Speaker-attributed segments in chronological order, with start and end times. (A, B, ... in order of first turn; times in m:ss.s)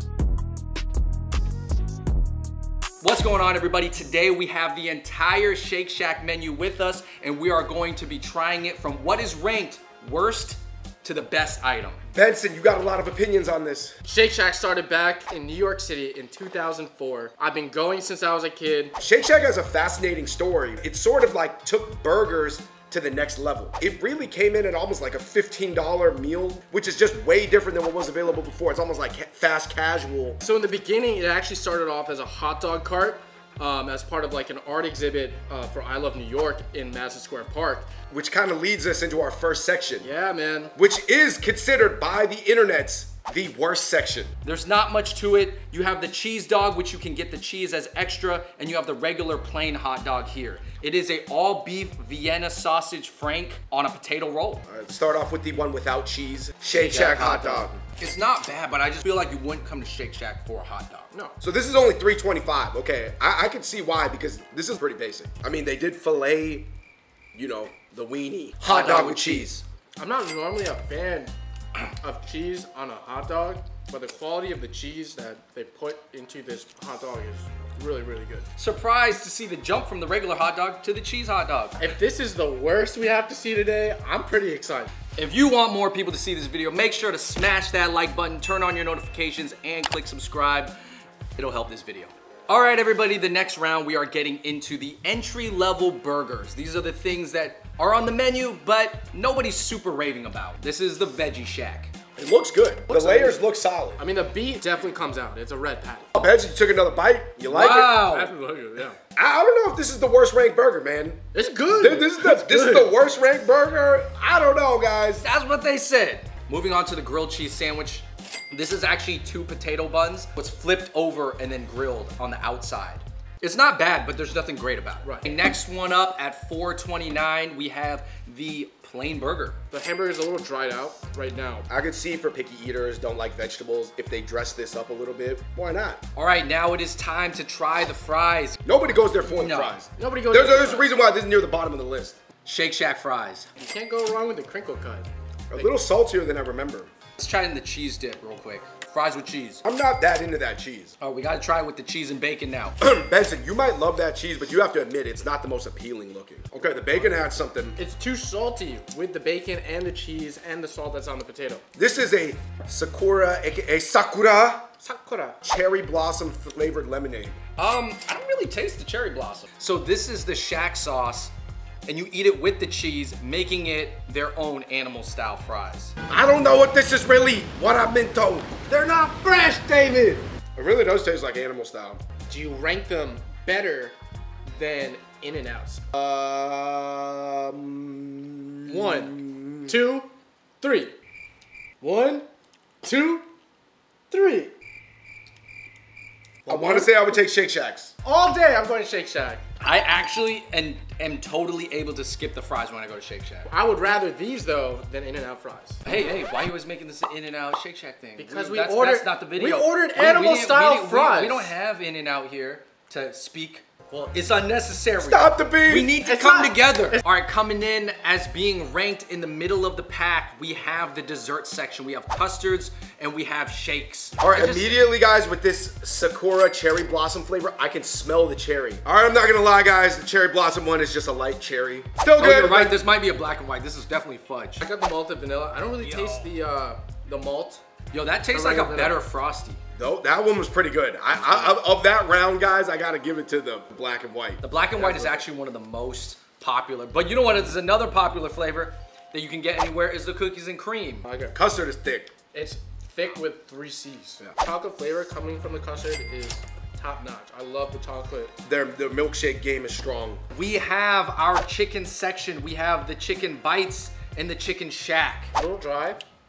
0:03.0-0:12.0 A
0:12.1-0:14.0 B
0:14.0-0:19.0 C
0:19.0-0:30.4 B
0:30.4-0:37.9 C
0:38.1-0:40.1 B
0:40.0-0:40.7 C
0:40.8-0:44.3 B
0:44.4-0:54.6 A
0:54.7-0:57.8 B
0:56.7-1:01.1 A
1:01.4-1:06.7 B
1:07.3-1:09.5 B
1:08.6-1:09.6 A
1:08.7-1:09.2 C
1:10.0-1:11.3 C
1:11.9-1:18.5 C
1:18.6-1:21.8 A
1:21.8-1:24.9 C
1:25.2-1:30.7 A
1:31.4-1:41.9 A
1:42.2-1:44.0 B
1:42.9-1:43.4 C
1:44.0-1:46.1 C
1:46.2-1:48.0 B
1:47.5-1:48.3 A
1:47.9-1:49.0 C
1:49.2-1:55.2 B
1:51.3-1:52.9 C
1:55.2-2:09.6 A
2:05.0-2:05.3 C
2:09.7-2:11.7 C
2:11.7-2:16.0 B
2:16.2-2:18.6 A
2:18.6-2:22.2 B
2:19.2-2:19.8 A
2:20.0-2:20.9 C
2:22.4-2:23.5 A
2:23.6-2:25.7 C
2:25.5-2:26.9 B
2:27.2-2:29.6 A
2:29.6-2:31.0 B
2:31.0-2:32.8 A
2:32.8-2:37.8 B
2:37.8-2:41.6 C
2:41.8-2:44.7 B
2:44.8-2:45.4 C
2:45.4-2:47.4 B
2:47.6-2:51.3 A
2:51.9-2:55.9 A
2:56.1-3:02.0 B
3:02.3-3:05.8 C
3:05.9-3:09.8 B
3:08.7-3:10.9 C
3:11.8-3:12.3 C
3:12.8-3:13.3 C
3:14.1-3:14.5 C
3:16.5-3:17.2 C
3:16.5-3:17.9 B
3:18.0-3:19.4 C
3:19.6-3:23.5 A
3:23.5-3:25.8 C
3:25.8-3:44.7 A
3:28.2-3:31.5 C
3:35.0-3:35.9 B
3:36.0-3:37.0 C
3:44.2-3:52.8 B
3:52.2-3:54.6 A
3:54.6-3:57.6 C
3:55.8-3:56.3 A
3:57.9-3:59.6 A
3:58.3-3:59.0 C
3:59.8-4:05.2 B
4:01.1-4:01.6 A
4:04.4-4:11.1 A
4:11.0-4:11.4 C
4:11.3-4:12.1 B
4:12.3-4:18.3 C
4:18.4-4:20.2 B
4:20.3-4:25.3 A
4:25.4-4:26.0 C